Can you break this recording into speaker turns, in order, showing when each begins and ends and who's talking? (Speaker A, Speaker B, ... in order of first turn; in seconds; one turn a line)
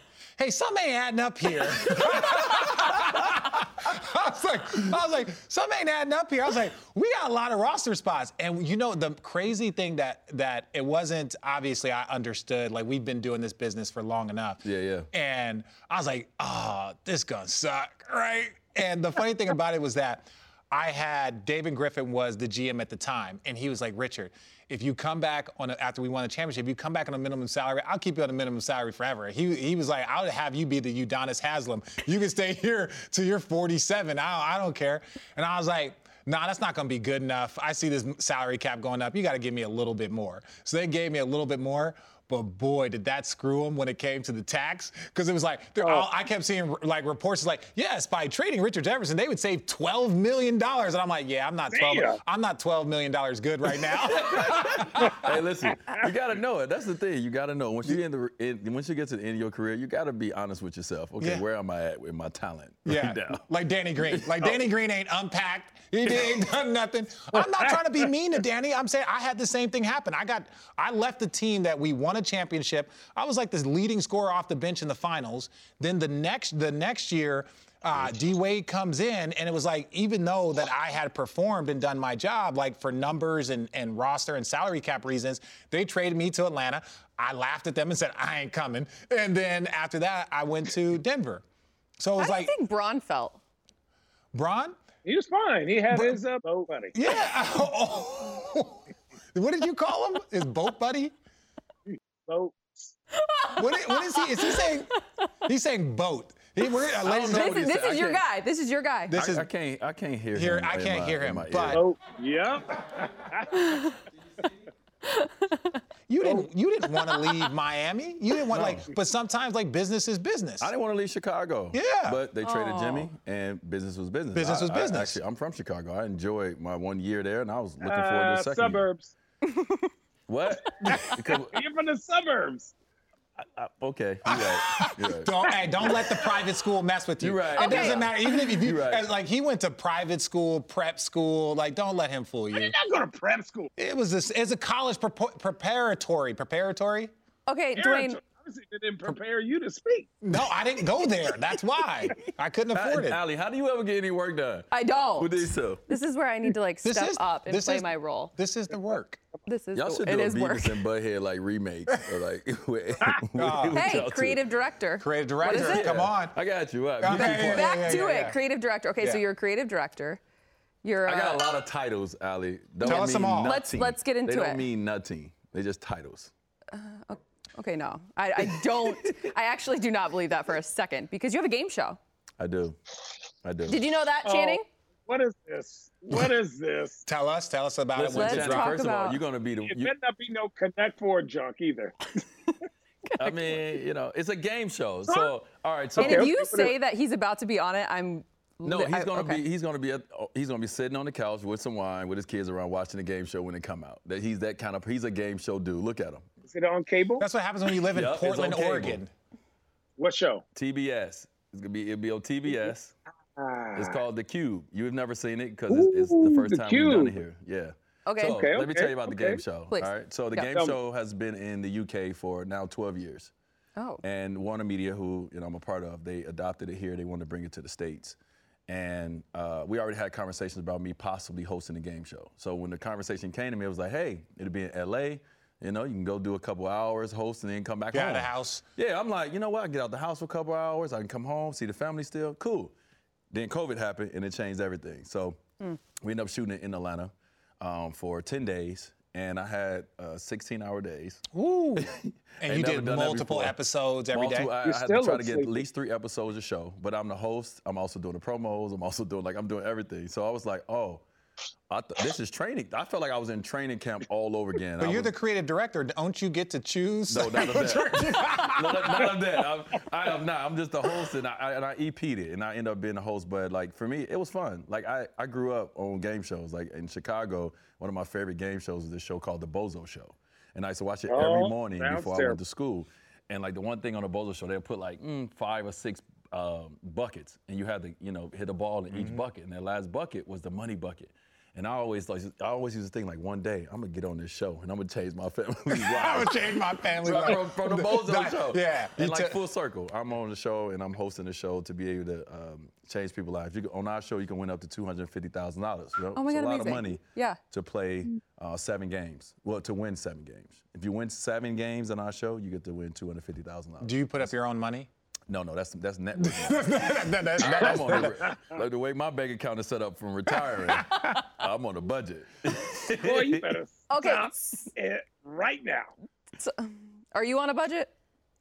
Speaker A: 0.4-55.3
Speaker B: 14.6-15.1
Speaker C: 45.8-46.1
Speaker C: 51.7-52.2
Speaker B: 53.9-63.5
Speaker A: 62.9-91.4
Speaker B: 64.0-64.6
Speaker A: 92.0-92.5
Speaker D: 92.2-93.4
Speaker A: 94.3-94.8
Speaker C: 95.0-96.9
Speaker A: 95.9-96.2
Speaker A: 96.9-101.1
Speaker C: 101.9-102.9
Speaker D: 103.2-105.0
Speaker A: 103.6-107.7
Speaker B: 107.0-108.3
Speaker D: 107.3-109.2
Speaker A: 109.1-109.5
Speaker B: 109.1-111.9
Speaker A: 110.3-111.8
Speaker C: 111.7-113.7
Speaker D: 113.6-113.9
Speaker D: 115.0-115.8
Speaker A: 116.1-120.7
Speaker C: 116.2-116.5
Speaker B: 118.5-118.9
Speaker B: 120.6-128.8
Speaker A: 121.7-122.2
Speaker D: 122.4-123.1
Speaker A: 124.3-125.2
Speaker C: 127.8-129.1
Speaker D: 129.4-129.9
Speaker B: 130.3-131.6
Speaker D: 130.8-131.1
Speaker C: 130.8-132.7
Speaker B: 133.4-136.2
Speaker A: 134.3-142.7
Speaker B: 137.2-139.1
Speaker D: 137.6-138.1
Speaker C: 142.5-143.7
Speaker A: 143.8-147.1
Speaker D: 147.5-148.2
Speaker C: 147.8-150.1
Speaker A: 150.2-153.2
Speaker B: 152.7-155.8
Speaker D: 154.7-158.3
Speaker A: 156.8-159.2
Speaker D: 159.5-160.8
Speaker B: 159.8-164.4
Speaker A: 163.3-164.0
Speaker D: 163.7-165.9
Speaker A: 165.0-166.4
Speaker B: 165.5-168.0
Speaker A: 167.0-168.4
Speaker D: 167.1-170.2
Speaker D: 170.8-171.4
Speaker B: 171.1-176.3
Speaker A: 172.8-173.6
Speaker D: 172.9-174.7
Speaker D: 176.7-182.0
Speaker B: 178.8-179.2
Speaker B: 182.4-182.8
Speaker B: 183.4-183.8
Speaker D: 183.7-184.7
Speaker C: 184.2-187.1
Speaker A: 187.1-188.8
Speaker B: 187.9-189.9
Speaker D: 188.1-189.2
Speaker C: 189.7-192.1
Speaker D: 193.1-193.8
Speaker B: 193.2-196.4
Speaker C: 196.0-196.7
Speaker D: 196.0-199.4
Speaker B: 198.7-206.2
Speaker C: 206.5-207.3
Speaker A: 207.2-209.1
Speaker B: 207.9-209.0
Speaker C: 210.0-210.4
Speaker B: 210.6-212.9
Speaker C: 213.4-214.0
Speaker B: 213.8-223.3
Speaker C: 215.7-217.2
Speaker D: 218.1-218.4
Speaker C: 218.3-219.4
Speaker D: 219.7-220.5
Speaker D: 223.8-224.0
Speaker B: 224.0-228.2
Speaker B: 228.7-242.7
Speaker A: 237.9-238.6
Speaker B: 243.3-245.4
Speaker B: 246.0-251.2
Speaker A: 251.3-251.9
Speaker B: 251.8-253.6
Speaker A: 252.4-254.5
Speaker B: 254.1-261.0
Speaker C: 254.6-255.6
Speaker B: 261.7-265.1
Speaker A: 264.8-269.1
Speaker B: 267.1-314.3
Speaker C: 281.1-282.4
Speaker A: 288.9-289.2
Speaker A: 295.7-299.4
Speaker D: 306.1-307.4
Speaker A: 313.8-314.9
Speaker B: 315.3-323.5
Speaker A: 316.2-318.3
Speaker A: 320.7-321.2
Speaker C: 323.0-325.9
Speaker D: 323.9-324.7
Speaker D: 326.4-327.9